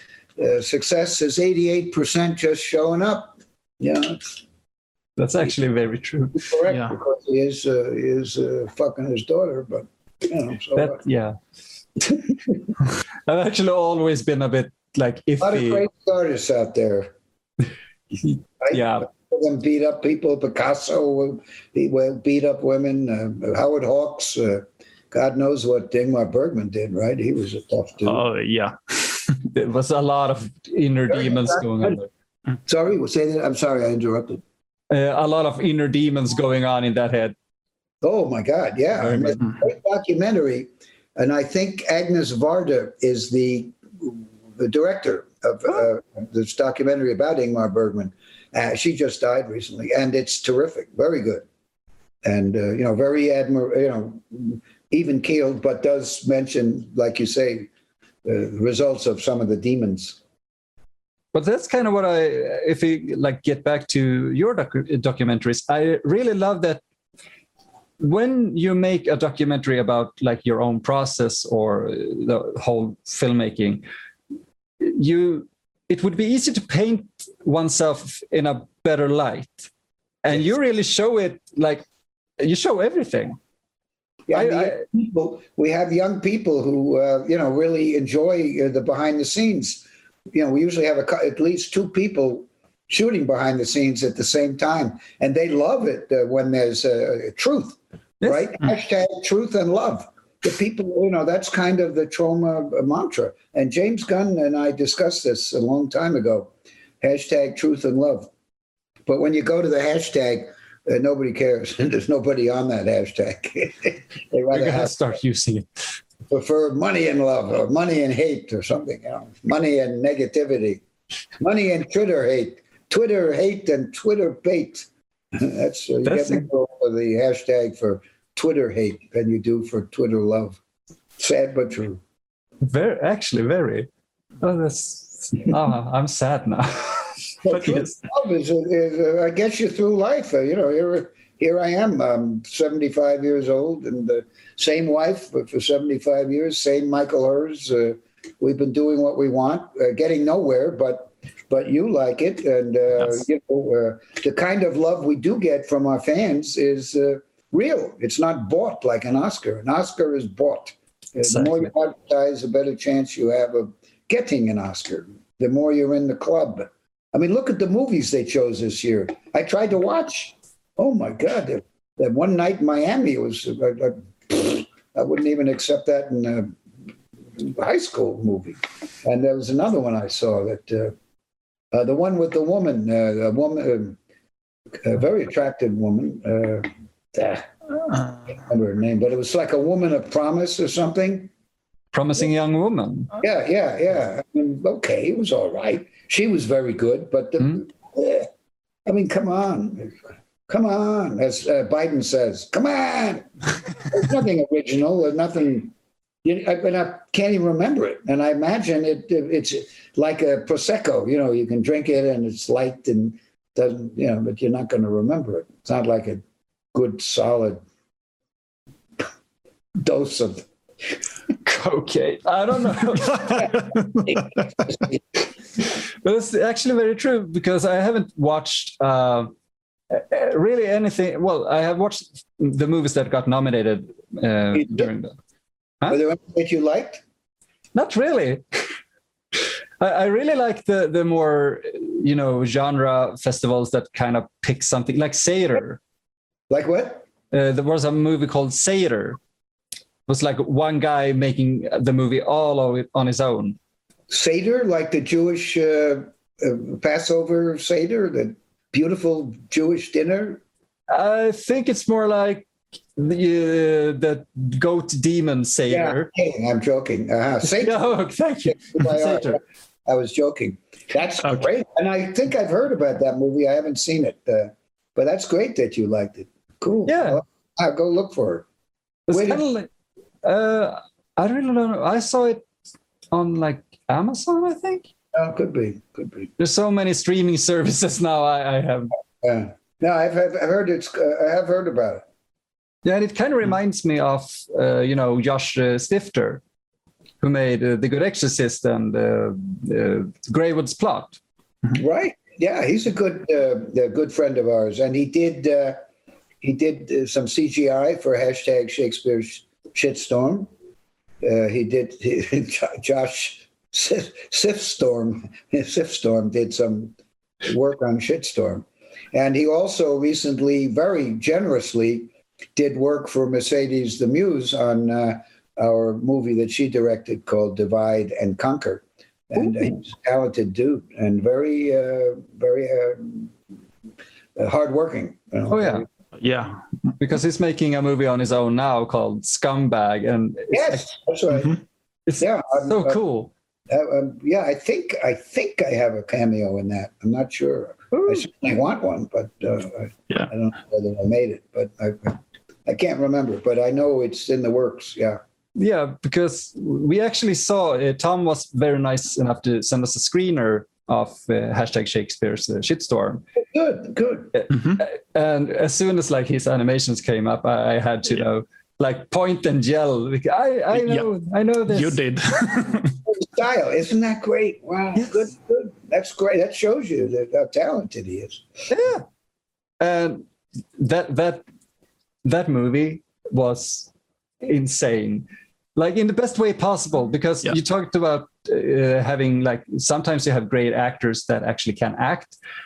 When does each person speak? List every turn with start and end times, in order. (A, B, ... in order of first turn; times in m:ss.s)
0:00.4-0:04.3 A
0:05.2-0:06.5 B
0:06.4-0:11.0 A
0:06.7-0:07.0 C
0:10.8-0:11.4 B
0:12.1-0:12.6 A
0:13.3-0:15.8 B
0:15.4-0:17.1 A
0:18.2-0:19.1 B
0:18.6-0:28.2 A
0:28.0-0:29.4 C
0:29.5-0:32.1 B
0:31.1-0:32.0 A
0:32.6-0:34.4 A
0:34.9-0:37.3 B
0:38.0-0:51.4 A
0:52.2-0:57.7 A
0:58.2-1:00.2 A
1:01.3-1:06.8 B
1:08.0-1:13.8 B
1:14.8-1:19.7 B
1:20.2-1:21.8 B
1:22.4-1:23.4 B
1:24.3-1:48.3 A
1:24.3-1:24.8 B
1:38.2-1:38.5 B
1:49.0-1:55.1 A
1:54.5-1:55.7 B
1:56.3-2:00.8 A
2:01.4-2:10.6 A
2:06.0-2:06.4 B
2:11.2-2:12.0 A
2:12.6-2:13.9 B
2:14.4-2:18.0 B
2:17.4-2:56.6 A
2:41.2-2:41.7 B
2:57.4-3:00.9 A
3:01.7-3:04.0 A
3:04.8-3:07.5 A
3:08.4-3:11.3 A
3:11.9-3:13.1 B
3:13.2-3:18.3 A
3:18.8-3:20.0 A
3:20.5-3:25.7 A
3:26.2-3:36.2 A
3:36.7-3:37.6 A
3:39.8-3:40.5 A
3:41.4-3:43.6 B
3:44.0-3:45.0 A
3:45.6-3:49.3 B
3:49.9-3:55.1 B
3:55.9-3:57.0 A
3:57.7-3:58.7 B
3:59.8-4:05.8 B
4:06.5-4:07.0 A
4:07.3-4:09.2 B
4:10.1-4:13.6 B
4:14.1-4:20.4 A
4:20.9-4:26.1 B
4:25.7-4:27.9 A
4:27.4-4:29.4 B
4:28.4-4:38.5 A
4:36.9-4:37.2 B
4:39.1-4:39.7 B
4:39.1-4:39.4 A
4:40.2-4:42.4 B
4:43.1-4:44.9 B
4:45.1-4:46.3 A
4:46.4-4:48.9 B
4:49.2-4:52.0 A
4:52.8-4:56.4 B
4:57.2-5:01.2 B
5:01.7-5:05.8 A
5:06.4-5:10.5 A
5:11.2-5:33.3 A
5:34.4-5:35.9 A
5:35.5-5:35.8 B
5:36.2-5:36.6 C
5:37.0-5:40.9 B
5:40.5-5:41.6 A
5:42.1-5:43.3 B
5:42.2-5:43.0 A
5:43.7-5:55.2 A
5:47.9-5:48.2 B
5:55.6-6:03.2 B
6:03.4-6:04.3 A
6:04.3-6:12.0 B
6:10.8-6:11.1 C
6:11.7-6:13.0 C
6:13.0-6:18.4 A
6:18.7-6:19.0 B
6:19.8-6:20.2 B
6:20.8-6:21.4 B
6:22.2-6:23.9 B
6:24.4-6:32.4 B